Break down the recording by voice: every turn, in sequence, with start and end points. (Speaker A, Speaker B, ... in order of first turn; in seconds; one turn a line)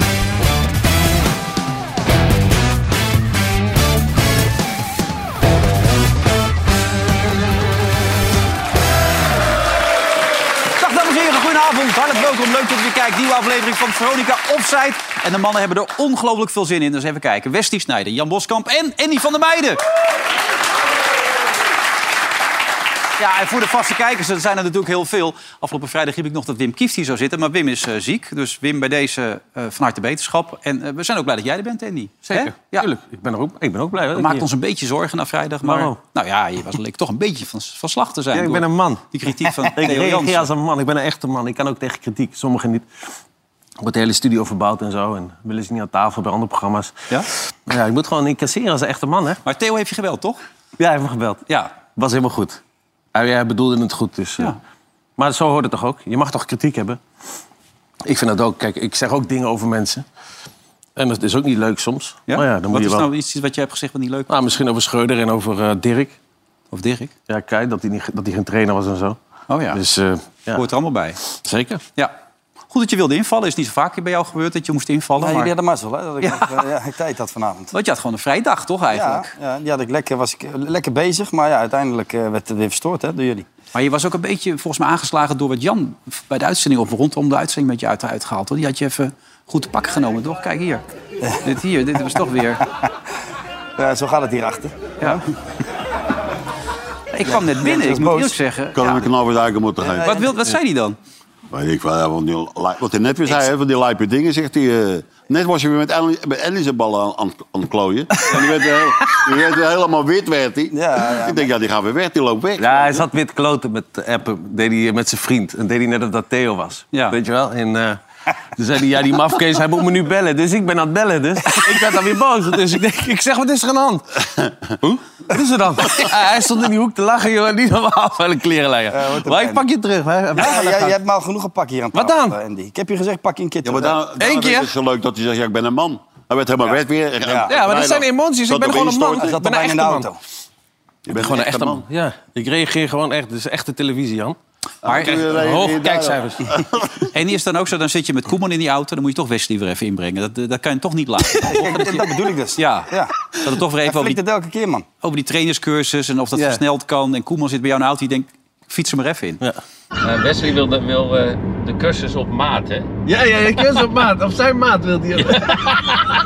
Speaker A: 10.8-19.8
Speaker A: 23.2-32.9
Speaker B: 32.3-34.5
Speaker A: 34.1-40.5
Speaker B: 35.6-36.0
Speaker B: 38.3-42.8
Speaker B: 43.8-46.9
Speaker B: 47.7-49.4
Speaker A: 49.4-50.4
Speaker B: 50.8-52.6
Speaker A: 51.5-51.7
Speaker B: 53.1-54.5
Speaker B: 55.2-57.0
Speaker B: 58.0-60.0
Speaker B: 61.0-63.1
Speaker A: 62.3-64.3
Speaker B: 64.3-66.2
Speaker A: 66.7-67.1
Speaker B: 67.3-69.2
Speaker A: 69.5-69.8
Speaker B: 69.7-70.6
Speaker A: 70.5-71.2
Speaker B: 71.2-71.8
Speaker A: 72.7-75.5
Speaker C: 75.2-77.7
Speaker A: 76.2-76.7
Speaker A: 77.7-79.3
Speaker C: 78.9-83.5
Speaker A: 83.7-90.9
Speaker A: 91.4-92.6
Speaker C: 93.8-95.2
Speaker A: 97.1-99.1
Speaker C: 97.2-98.3
Speaker D: 98.7-100.2
Speaker C: 99.8-100.3
Speaker A: 100.0-101.0
Speaker D: 101.5-113.1
Speaker C: 110.7-111.5
Speaker B: 112.6-118.0
Speaker B: 118.5-124.2
Speaker B: 124.8-131.0
Speaker C: 128.9-129.6
Speaker C: 130.3-133.9
Speaker B: 131.9-132.3
Speaker D: 133.6-139.3
Speaker B: 134.2-134.7
Speaker C: 137.2-137.5
Speaker B: 137.5-140.1
Speaker C: 138.7-140.2
Speaker D: 141.1-141.8
Speaker B: 141.1-144.4
Speaker D: 144.8-147.1
Speaker A: 144.8-145.2
Speaker B: 145.1-146.4
Speaker A: 147.1-154.2
Speaker C: 151.4-154.8
Speaker A: 155.0-159.4
Speaker B: 156.3-156.6
Speaker E: 160.0-162.9
Speaker B: 163.1-165.9
Speaker E: 165.4-165.9